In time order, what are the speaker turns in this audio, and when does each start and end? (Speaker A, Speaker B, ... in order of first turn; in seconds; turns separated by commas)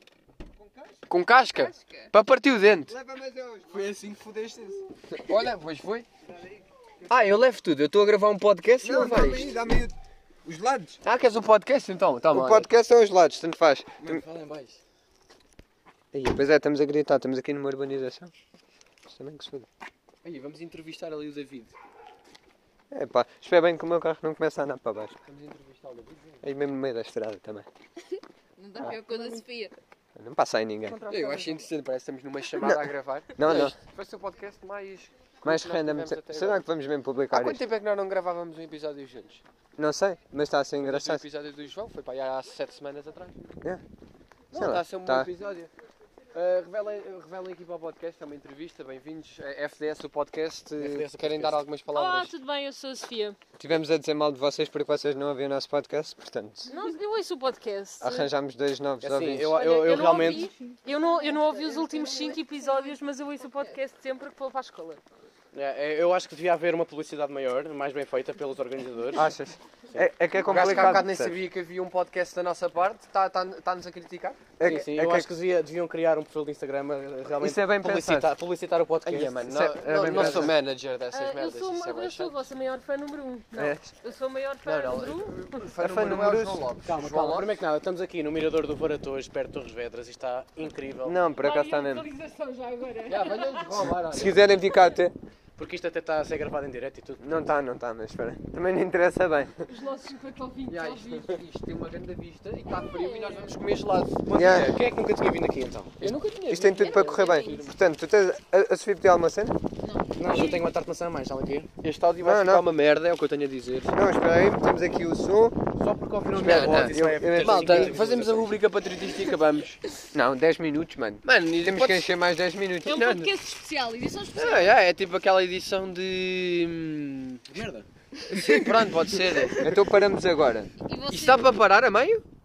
Speaker A: 0.6-0.9, Speaker B: 1.1-3.0, Speaker A: 2.9-4.7, Speaker B: 3.7-4.1, Speaker B: 5.2-6.1, Speaker B: 7.1-9.6, Speaker A: 8.8-11.0, Speaker B: 11.0-12.7, Speaker A: 12.3-14.2, Speaker B: 14.0-14.8, Speaker A: 16.1-18.3, Speaker A: 19.1-19.7, Speaker B: 20.2-21.7, Speaker A: 22.9-25.2, Speaker B: 25.3-26.4, Speaker A: 26.4-27.7, Speaker C: 28.6-29.8, Speaker A: 30.1-31.0, Speaker B: 31.1-36.6, Speaker A: 33.4-33.8, Speaker A: 35.4-37.6, Speaker B: 37.3-39.4, Speaker A: 39.8-41.2, Speaker B: 40.8-43.4, Speaker A: 44.5-45.3, Speaker B: 44.5-45.7, Speaker B: 46.3-52.3, Speaker D: 50.8-51.5, Speaker E: 51.9-53.4, Speaker A: 53.6-56.8, Speaker E: 56.7-58.3, Speaker A: 58.0-60.2, Speaker D: 59.0-60.5, Speaker E: 59.4-65.0, Speaker C: 61.0-62.7, Speaker D: 65.5-69.3, Speaker A: 69.1-71.3, Speaker B: 70.4-74.5, Speaker A: 74.6-75.3, Speaker D: 74.6-79.4, Speaker A: 77.4-78.3, Speaker A: 79.0-80.5, Speaker B: 79.5-82.5, Speaker E: 81.1-85.7, Speaker A: 83.6-83.9, Speaker B: 84.6-87.5, Speaker A: 85.8-86.8, Speaker D: 86.9-91.2, Speaker A: 91.0-92.1, Speaker E: 91.3-93.9, Speaker B: 93.1-94.4, Speaker A: 94.1-95.1, Speaker D: 95.6-97.2, Speaker A: 97.2-99.7, Speaker E: 99.7-101.4, Speaker B: 100.7-104.7, Speaker E: 102.7-103.5, Speaker D: 104.2-106.2, Speaker A: 104.3-104.8, Speaker B: 106.0-107.6, Speaker A: 106.5-109.6, Speaker D: 106.8-107.5, Speaker C: 106.8-107.5, Speaker E: 107.2-107.7, Speaker C: 109.8-110.1, Speaker D: 110.2-111.7, Speaker E: 110.2-110.8, Speaker B: 111.8-114.0, Speaker A: 112.2-112.6, Speaker A: 113.9-115.6, Speaker D: 115.8-118.5, Speaker A: 116.3-117.9, Speaker B: 116.4-119.8, Speaker A: 120.1-123.3, Speaker B: 121.2-122.1, Speaker E: 122.8-124.5, Speaker C: 124.1-124.6, Speaker B: 124.3-129.7, Speaker A: 128.3-128.6, Speaker A: 129.6-130.7, Speaker C: 130.9-131.5, Speaker B: 131.1-132.2